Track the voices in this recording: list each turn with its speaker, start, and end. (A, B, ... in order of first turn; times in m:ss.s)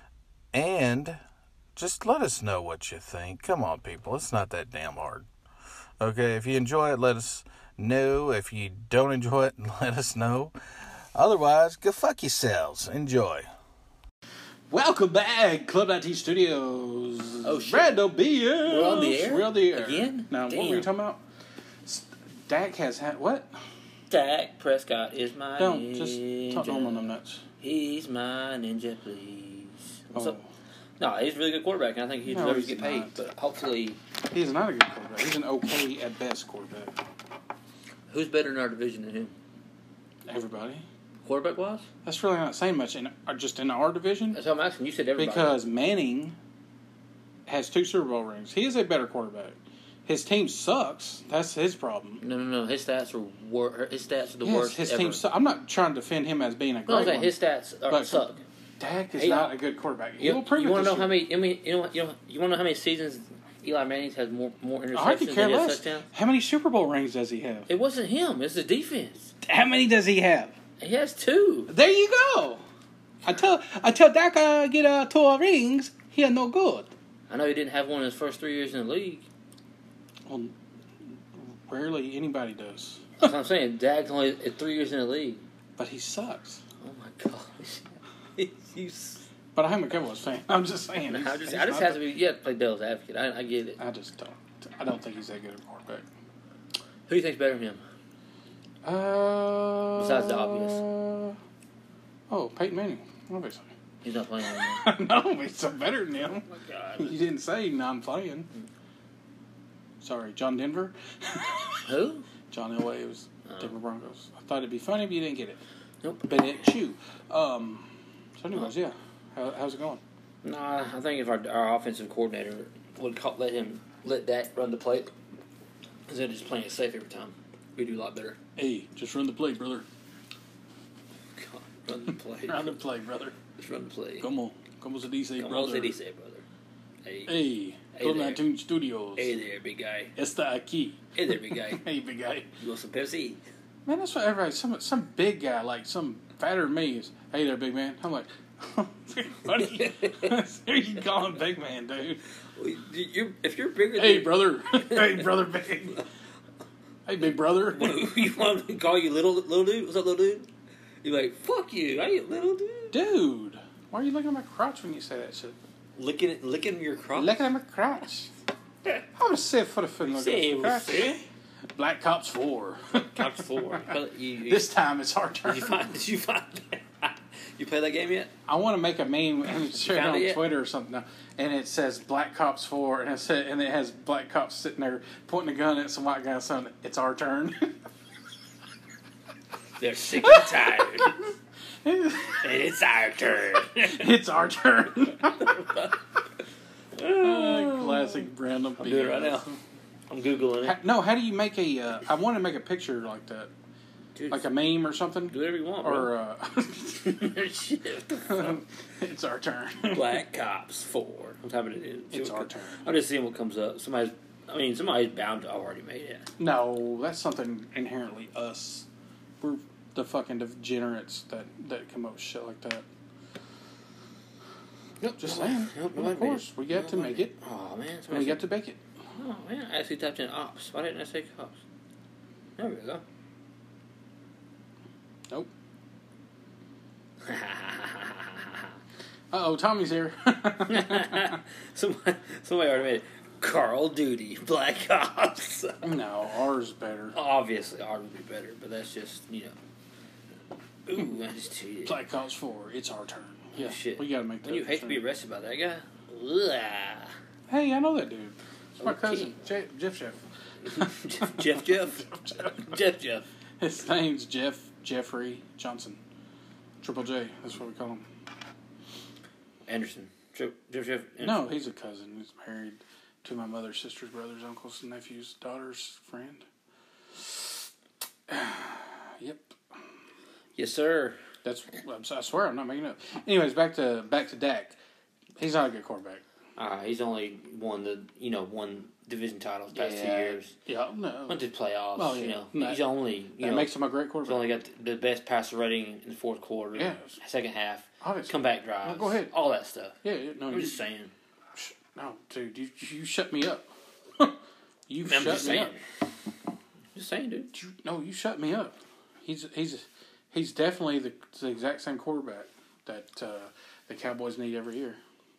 0:00.5-0:01.2 A
0:01.8-0:05.3 A
0:06.0-0:10.6 A
0:11.2-0:13.5 A
0:14.7-0:21.2 B
0:17.4-0:18.0 C
0:18.7-0:20.9 C
0:21.8-0:23.6 B
0:24.1-0:30.4 C
0:25.6-0:27.4 B
0:30.1-0:30.5 B
0:31.0-0:34.0 C
0:32.3-0:33.2 B
0:34.3-0:37.0 B
0:38.1-0:39.4 C
0:40.3-0:40.8 B
0:41.2-0:41.9 C
0:42.0-0:44.4 B
0:44.3-0:45.6 C
0:45.2-0:46.4 B
0:47.5-0:52.2 B
0:52.2-0:55.2 C
0:54.4-0:57.4 B
0:56.9-0:58.4 C
0:57.9-0:58.3 B
0:58.8-1:01.2 B
0:59.2-0:59.5 C
1:00.2-1:06.1 C
1:04.9-1:07.7 B
1:07.7-1:09.3 C
1:09.4-1:10.5 B
1:10.8-1:11.7 C
1:11.7-1:12.6 B
1:13.2-1:16.9 B
1:17.3-1:19.2 C
1:20.3-1:20.6 B
1:21.1-1:23.3 B
1:23.2-1:25.4 C
1:25.8-1:26.6 B
1:26.8-1:29.3 C
1:29.6-1:32.0 B
1:31.1-1:33.8 C
1:33.8-1:36.1 B
1:37.1-1:37.8 C
1:38.8-1:41.4 B
1:40.0-1:40.9 C
1:42.3-1:43.7 B
1:44.0-1:44.9 C
1:44.5-1:46.5 B
1:46.5-1:47.1 C
1:47.0-1:48.5 B
1:50.0-1:51.8 B
1:51.8-1:52.3 C
1:52.5-1:55.6 B
1:53.5-1:53.7 C
1:56.0-1:56.4 C
1:56.2-2:00.0 B
2:00.4-2:05.1 C
2:06.1-2:08.4 C
2:08.6-2:09.9 B
2:11.4-2:12.8 C
2:12.5-2:13.4 B
2:13.6-2:14.3 C
2:14.2-2:16.0 B
2:15.4-2:16.4 C
2:17.0-2:17.4 C
2:17.3-2:19.4 B
2:17.9-2:18.4 C
2:19.2-2:20.1 C
2:20.2-2:22.5 B
2:21.2-2:21.8 C
2:22.6-2:23.4 C
2:23.9-2:32.2 B
2:29.5-2:30.4 C
2:32.6-2:36.0 C
2:34.0-2:36.0 B
2:37.1-2:38.2 B
2:37.7-2:40.5 C
2:41.0-2:43.0 C
2:42.9-2:45.6 B
2:46.0-2:47.4 C
2:47.2-2:48.3 B
2:49.2-2:51.2 B
2:50.0-2:51.2 C
2:51.8-2:55.8 B
2:53.0-2:54.7 C
2:55.4-2:58.3 C
2:58.5-3:07.8 B
2:59.7-3:00.4 C
3:09.8-3:11.2 C
3:10.2-3:11.1 B
3:11.8-3:12.4 B
3:12.4-3:14.1 C
3:13.8-3:15.6 B
3:15.4-3:16.0 C
3:17.0-3:18.3 C
3:17.2-3:19.6 B
3:18.8-3:19.5 C
3:20.1-3:20.8 C
3:20.6-3:23.5 B
3:24.2-3:24.5 C
3:24.3-3:27.2 B
3:25.3-3:26.1 C
3:27.0-3:28.6 C
3:28.2-3:30.2 B
3:29.9-3:36.3 C
3:32.1-3:32.9 B
3:36.4-3:38.9 B
3:39.4-3:42.8 B
3:45.0-3:48.4 C
3:45.2-3:47.4 B
3:48.1-3:48.8 B
3:49.2-3:51.6 C
3:52.6-3:53.0 C
3:57.2-3:58.7 C
3:59.3-4:01.4 B
4:00.7-4:05.9 C
4:05.8-4:07.2 B
4:07.1-4:09.6 C
4:10.9-4:12.0 C
4:11.9-4:15.0 B
4:13.6-4:17.2 C
4:17.5-4:20.2 B
4:18.8-4:19.4 C
4:20.6-4:23.3 C
4:20.8-4:22.6 B
4:23.6-4:26.0 B
4:26.8-4:28.0 B
4:29.7-4:31.5 C
4:31.2-4:36.5 B
4:38.3-4:39.6 B
4:40.6-4:41.2 C
4:41.4-4:44.8 B
4:45.4-4:46.2 B
4:46.6-4:50.6 C
4:49.7-4:51.4 B
4:51.3-4:53.7 C
4:52.0-4:52.8 B
4:53.4-4:54.4 B
4:54.2-5:01.1 C
4:56.8-4:57.2 B
4:58.0-4:59.3 B
5:00.0-5:00.8 B
5:01.6-5:04.4 B
5:04.9-5:05.7 B
5:05.0-5:05.8 C
5:07.0-5:07.5 C
5:07.5-5:15.0 B